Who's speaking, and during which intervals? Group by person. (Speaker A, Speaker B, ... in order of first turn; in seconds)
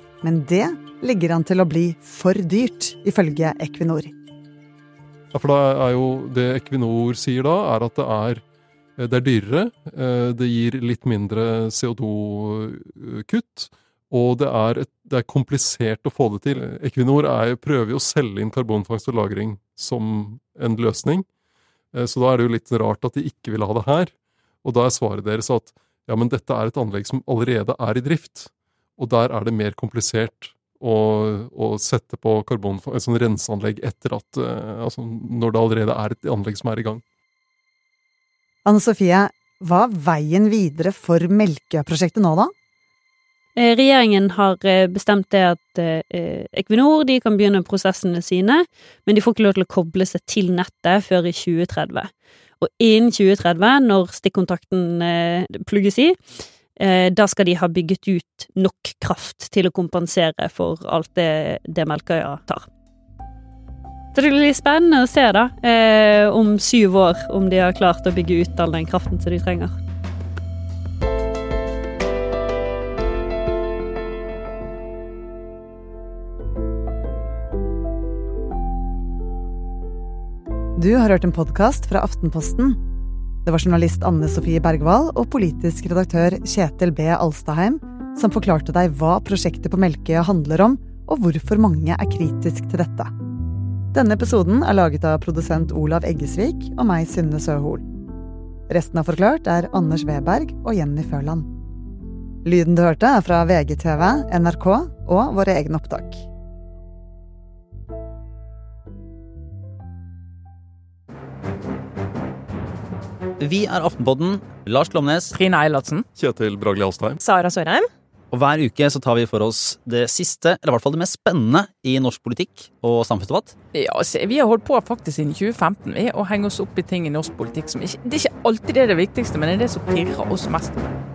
Speaker A: 0.2-4.1, 38.6-42.5, 80.8-82.8, 83.5-93.1, 93.9-97.8, 98.7-101.5, 102.4-106.3
Speaker B: 5.3-8.4, 9.0-21.2, 21.9-24.1, 24.6-37.0, 116.2-117.2
Speaker C: 43.6-56.2, 56.8-62.7, 64.1-69.8
Speaker D: 113.4-115.3, 118.3-123.5
Speaker E: 115.4-116.1, 117.2-117.9, 123.8-130.9